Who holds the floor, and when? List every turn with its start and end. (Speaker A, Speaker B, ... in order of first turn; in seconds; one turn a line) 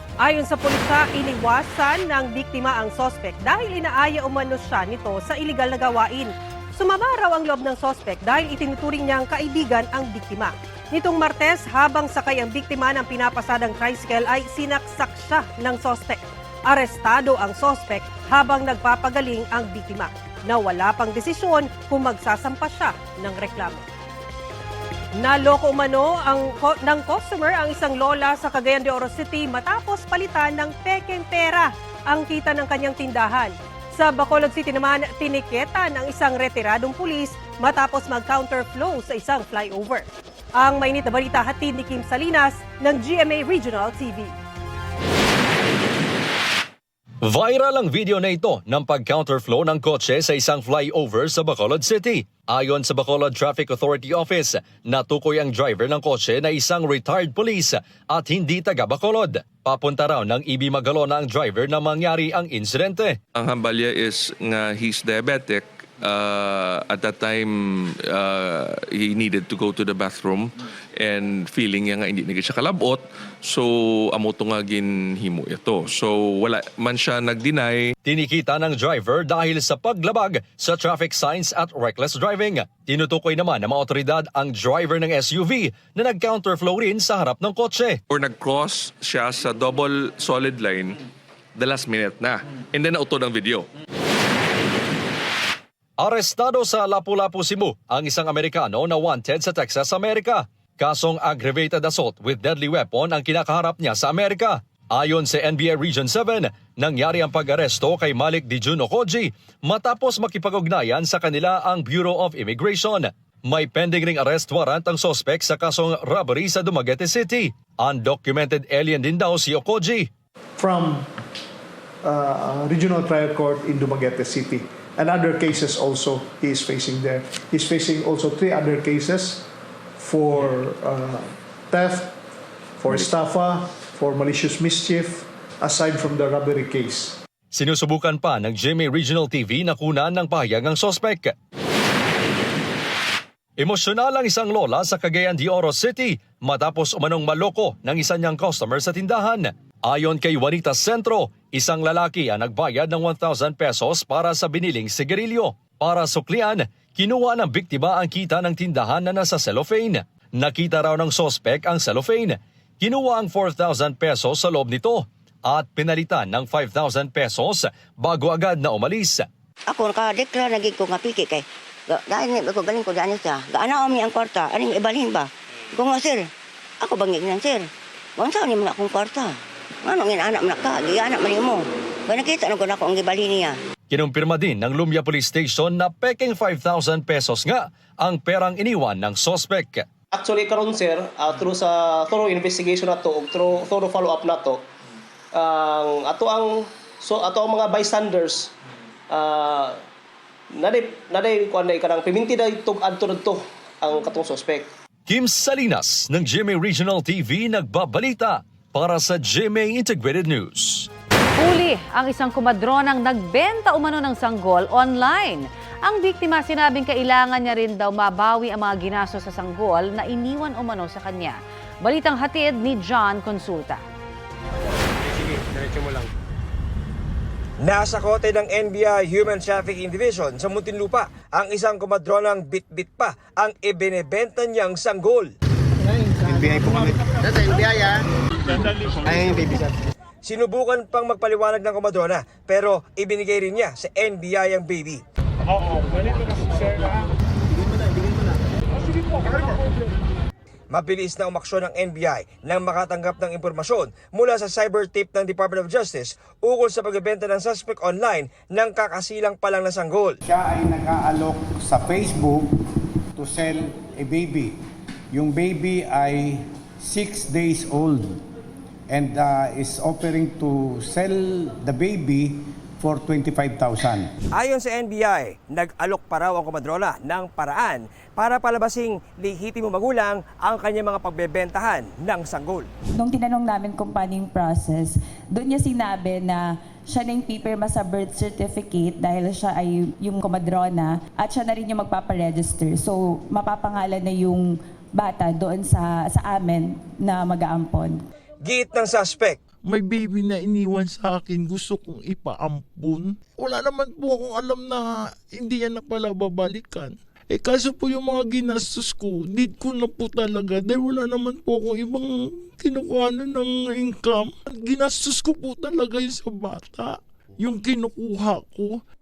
Speaker A: 0.2-23.9
Speaker A: 25.1-44.4
Speaker B: 47.2-63.2
Speaker C: 63.4-77.9
Speaker B: 78.0-88.0
Speaker C: 88.1-91.0
Speaker C: 91.6-93.7
Speaker B: 96.0-120.1
Speaker D: 120.6-121.1
Speaker D: 122.0-129.5
Speaker D: 130.0-132.2
Speaker D: 132.8-137.2
Speaker B: 137.5-141.3
Speaker B: 143.6-169.3
Speaker E: 169.7-176.3
Speaker E: 176.8-183.6
Speaker B: 183.9-189.8
Speaker F: 190.1-194.6
Speaker F: 195.3-198.5
Speaker F: 199.1-199.8
Speaker F: 200.5-204.7
Speaker B: 205.1-210.9
Speaker G: 211.4-223.8
Speaker H: 227.6-235.3
Speaker H: 240.2-245.0
Speaker H: 250.7-260.2
Speaker I: 260.2-262.5
Speaker I: 263.2-264.6
Speaker I: 265.1-268.2
Speaker I: 268.9-274.1
Speaker H: 274.3-282.7
Speaker J: 283.0-298.0
Speaker H: 298.4-299.4
Speaker K: 299.6-318.8